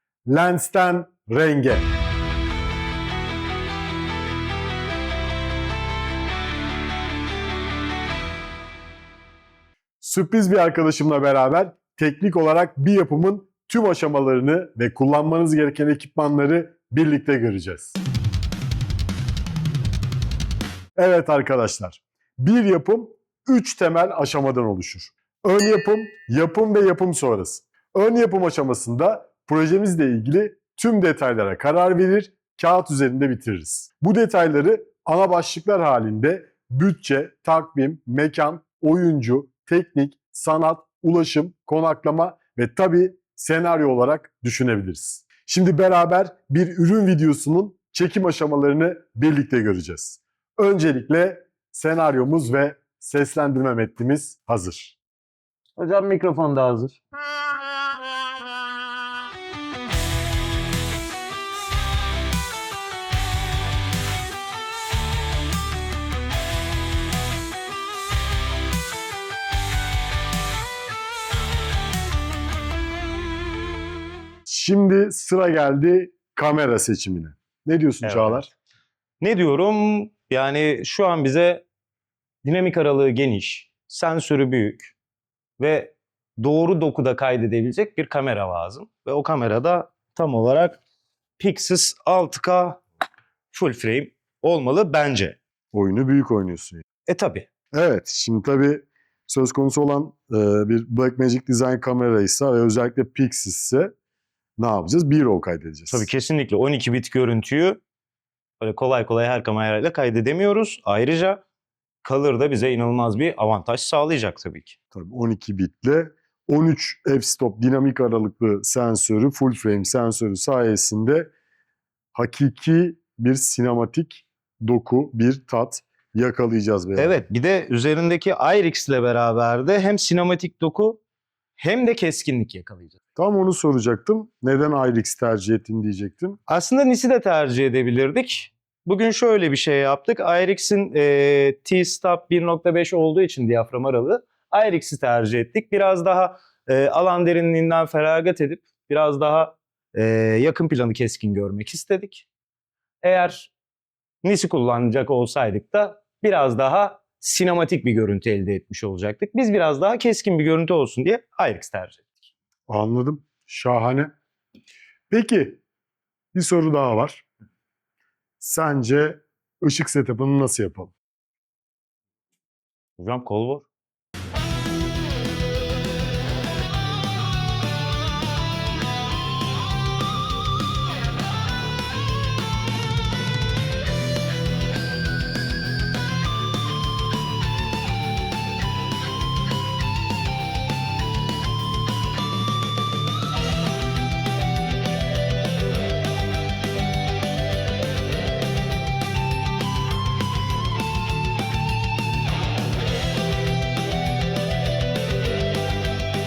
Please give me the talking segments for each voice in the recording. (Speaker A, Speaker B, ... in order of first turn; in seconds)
Speaker A: 0.3-1.8, 10.0-17.9, 20.9-55.0, 74.5-78.5, 95.7-96.8, 97.7-103.9, 104.6-106.1, 114.9-121.3, 122.1-127.2, 133.2-136.4, 162.7-164.1, 165.1-165.6, 166.3-167.3, 168.4-170.9
Speaker B: 55.8-57.0, 78.0-78.5, 79.2-81.6, 82.4-84.9, 85.6-90.8, 91.4-92.8, 93.5-95.4, 97.1-97.5, 105.9-107.8, 108.6-111.4, 112.0-114.7, 127.0-131.0, 131.6-132.9, 136.5-152.3, 153.0-153.5, 154.2-162.3, 173.0-173.7